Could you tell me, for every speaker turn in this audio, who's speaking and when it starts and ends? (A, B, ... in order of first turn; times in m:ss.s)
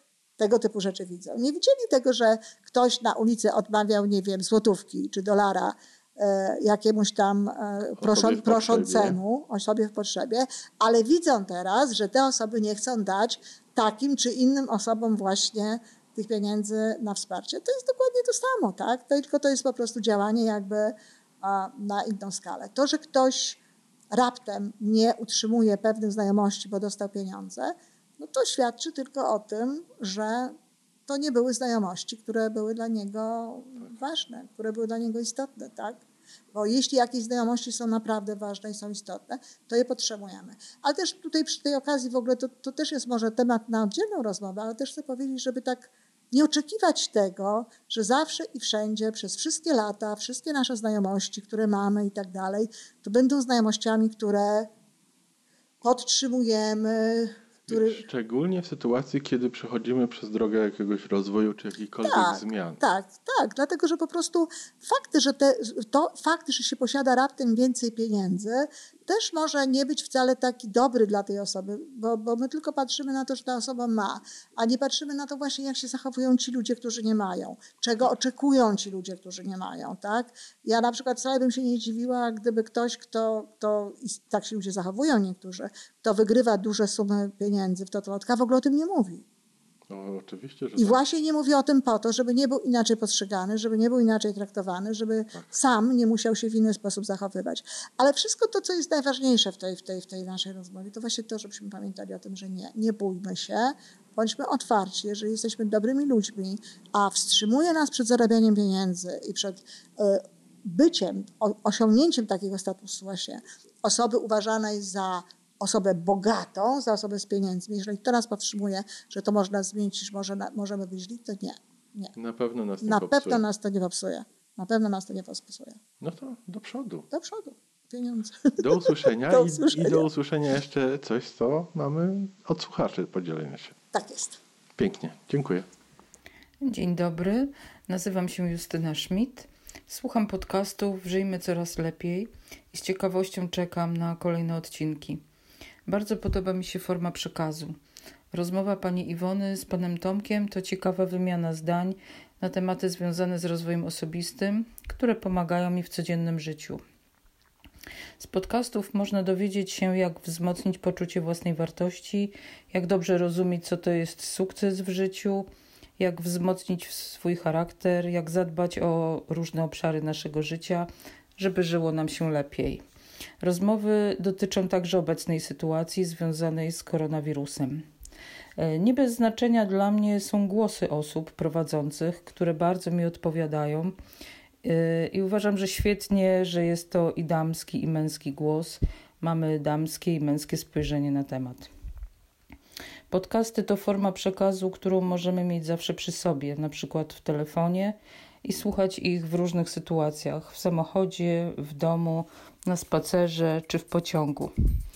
0:00.4-0:23.6 A
0:08.0-0:09.2 B
0:24.1-0:30.5 A
0:31.1-0:36.0 A
0:36.5-0:54.7 A
0:55.8-0:58.0 A
0:57.7-1:02.8 B
1:02.0-1:29.2 A
1:29.9-1:31.0 B
1:30.8-2:02.1 A
2:02.2-2:03.4 B
2:02.8-2:05.8 A
2:06.0-2:07.1 B
2:07.1-2:10.1 A
2:08.6-2:13.8 B
2:13.9-2:14.4 A
2:14.8-2:15.7 B
2:16.6-2:25.2 C
2:25.9-2:27.8 C
2:28.3-2:36.8 C
2:38.2-2:45.5 C
2:46.0-2:52.8 C
2:53.4-2:57.8 C
2:58.6-3:03.9 C
3:04.6-3:11.7 C
3:13.1-3:24.5 C